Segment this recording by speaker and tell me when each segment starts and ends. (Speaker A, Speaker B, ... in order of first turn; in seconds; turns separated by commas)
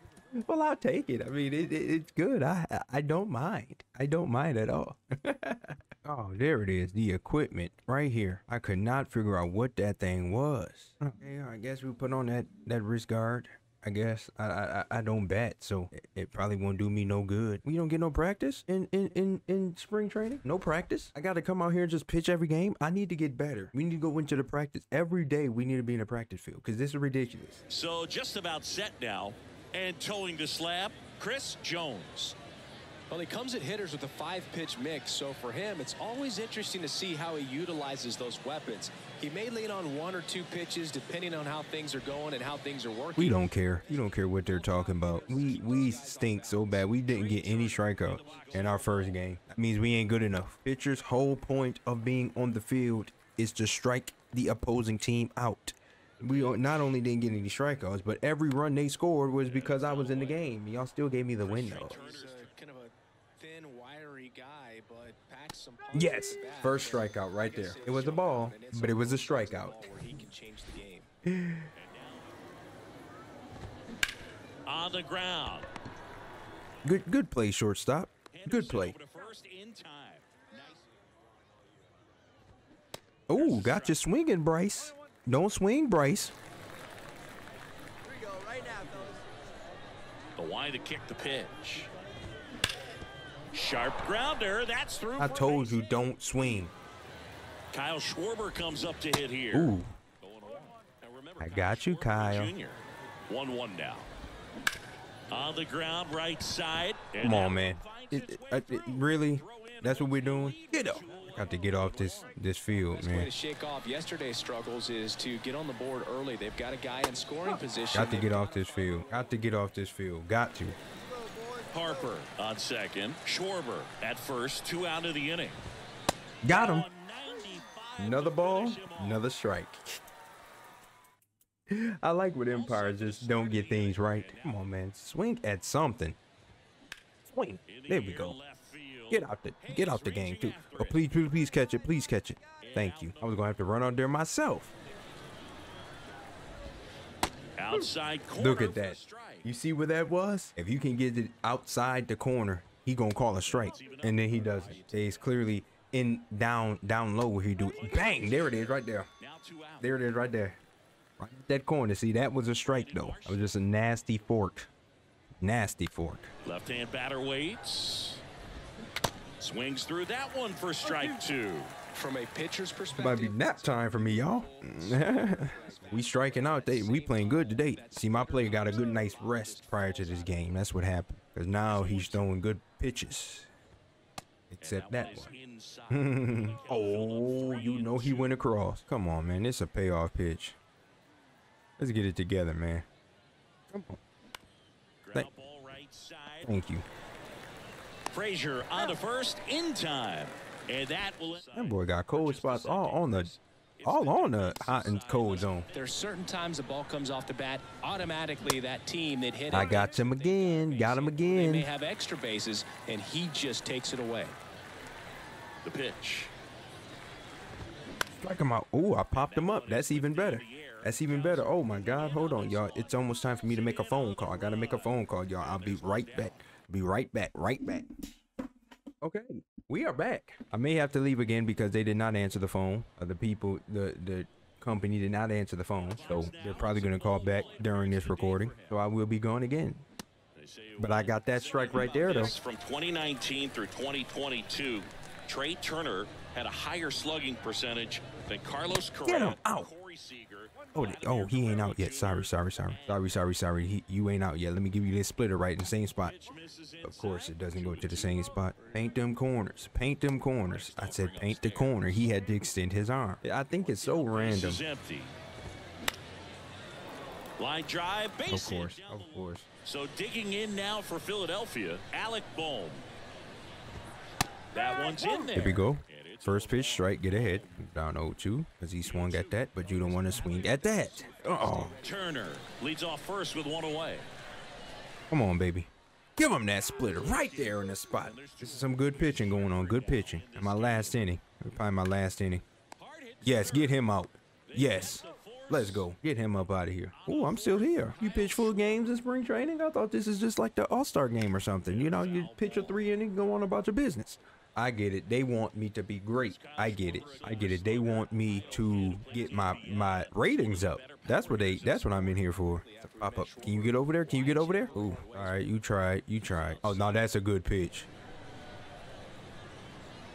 Speaker A: 0.3-27.6, Speaker B: 27.7-32.4, Speaker C: 33.1-43.5, Speaker A: 43.2-62.0, Speaker B: 43.9-49.1, Speaker C: 44.9-46.5, Speaker B: 56.3-56.6, Speaker B: 59.5-60.5, Speaker B: 61.4-62.5, Speaker C: 61.8-71.1, Speaker A: 65.9-69.8, Speaker A: 71.2-71.7, Speaker B: 71.8-72.3, Speaker B: 74.7-75.7, Speaker A: 76.8-79.0, Speaker B: 78.3-80.8, Speaker A: 83.3-86.3, Speaker B: 83.3-84.0, Speaker B: 90.4-91.9, Speaker B: 93.5-95.8, Speaker A: 95.2-96.7, Speaker B: 97.7-104.1, Speaker A: 99.5-100.0, Speaker A: 101.4-102.5, Speaker B: 105.3-112.3, Speaker A: 107.2-113.3, Speaker C: 112.9-118.5, Speaker A: 117.5-120.8, Speaker B: 117.8-119.4, Speaker B: 121.7-125.6, Speaker A: 126.4-126.9, Speaker B: 126.5-129.2, Speaker A: 128.0-130.0, Speaker A: 131.7-136.2, Speaker B: 132.5-134.6, Speaker A: 137.3-138.4, Speaker B: 137.7-141.4, Speaker A: 139.1-144.7, Speaker B: 142.6-143.5, Speaker B: 147.6-149.5, Speaker A: 147.7-159.1, Speaker B: 153.4-155.3, Speaker B: 157.6-159.9, Speaker A: 159.8-160.6, Speaker A: 161.2-164.7, Speaker B: 162.7-163.4, Speaker A: 165.4-166.3, Speaker B: 166.4-168.2, Speaker B: 169.4-171.7, Speaker C: 171.9-180.6, Speaker A: 172.9-183.5, Speaker B: 181.7-182.3, Speaker A: 184.5-185.3, Speaker B: 184.6-188.4, Speaker A: 185.9-190.6, Speaker A: 191.8-192.9, Speaker A: 193.7-194.0, Speaker B: 195.0-196.6, Speaker A: 196.4-196.8, Speaker B: 198.1-205.8, Speaker A: 201.5-203.3, Speaker A: 203.8-205.7, Speaker C: 205.7-209.8, Speaker B: 209.5-211.3, Speaker A: 209.5-211.7, Speaker C: 211.2-214.4, Speaker B: 215.6-216.3, Speaker A: 218.2-227.9, Speaker B: 219.1-226.4, Speaker A: 229.0-239.8, Speaker B: 235.8-238.8, Speaker B: 240.3-253.0, Speaker A: 240.8-242.3, Speaker A: 249.1-249.7, Speaker A: 250.7-256.1, Speaker B: 256.0-258.7, Speaker A: 256.8-264.6, Speaker C: 258.6-258.9, Speaker B: 260.4-262.3, Speaker B: 263.5-265.2, Speaker B: 267.4-272.9, Speaker A: 268.3-269.5, Speaker B: 274.5-277.7, Speaker A: 275.3-281.8, Speaker B: 278.8-280.6, Speaker C: 280.1-282.1, Speaker B: 281.4-284.1, Speaker A: 285.1-292.4, Speaker B: 286.5-291.0, Speaker B: 292.8-293.8, Speaker A: 293.2-317.9, Speaker B: 294.5-295.9, Speaker B: 296.9-298.9, Speaker B: 301.6-302.9, Speaker B: 306.2-312.1, Speaker C: 311.9-315.4, Speaker B: 316.3-317.0